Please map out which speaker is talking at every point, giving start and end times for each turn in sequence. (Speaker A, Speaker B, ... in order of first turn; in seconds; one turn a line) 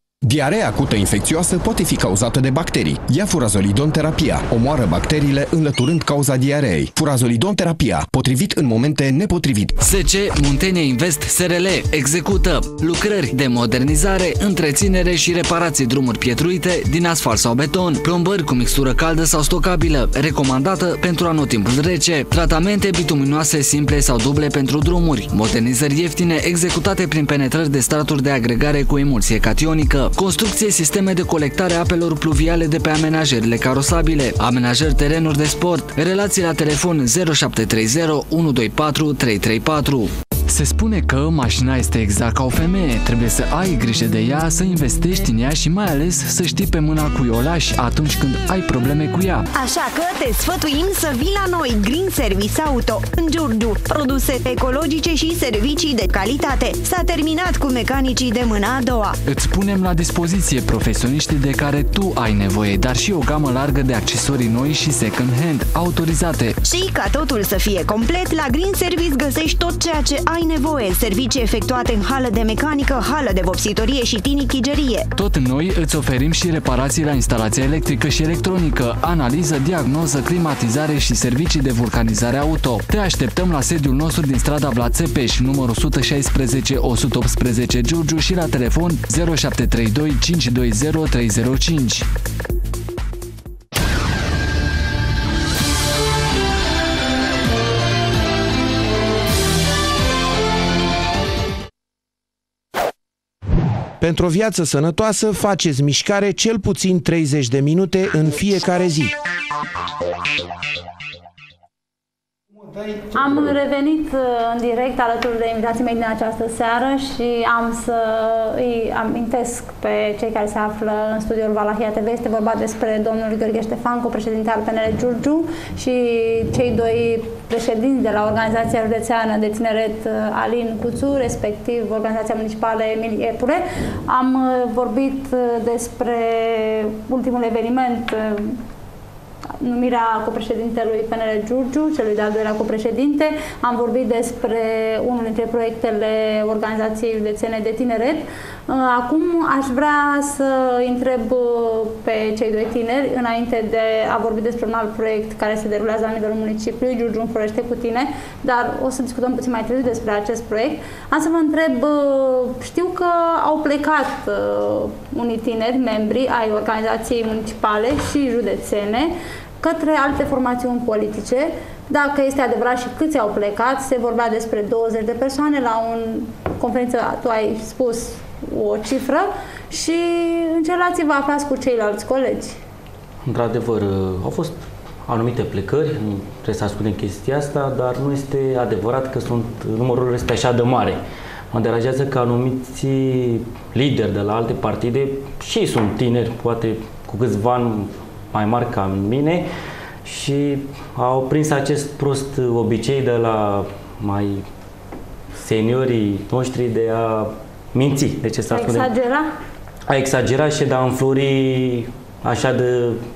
Speaker A: 0.2-9.8
Speaker B: 9.8-49.5
Speaker C: 49.5-59.2
Speaker B: 59.3-66.6
Speaker C: 66.6-75.1
Speaker B: 75.2-92.1
Speaker D: 104.0-109.2
Speaker D: 112.7-113.1
Speaker E: 113.1-138.6
Speaker E: 139.6-182.6
Speaker F: 183.2-191.0
Speaker F: 191.5-199.5
Speaker F: 200.1-204.4
Speaker F: 205.4-208.9
Speaker E: 208.5-209.3
Speaker F: 209.9-213.0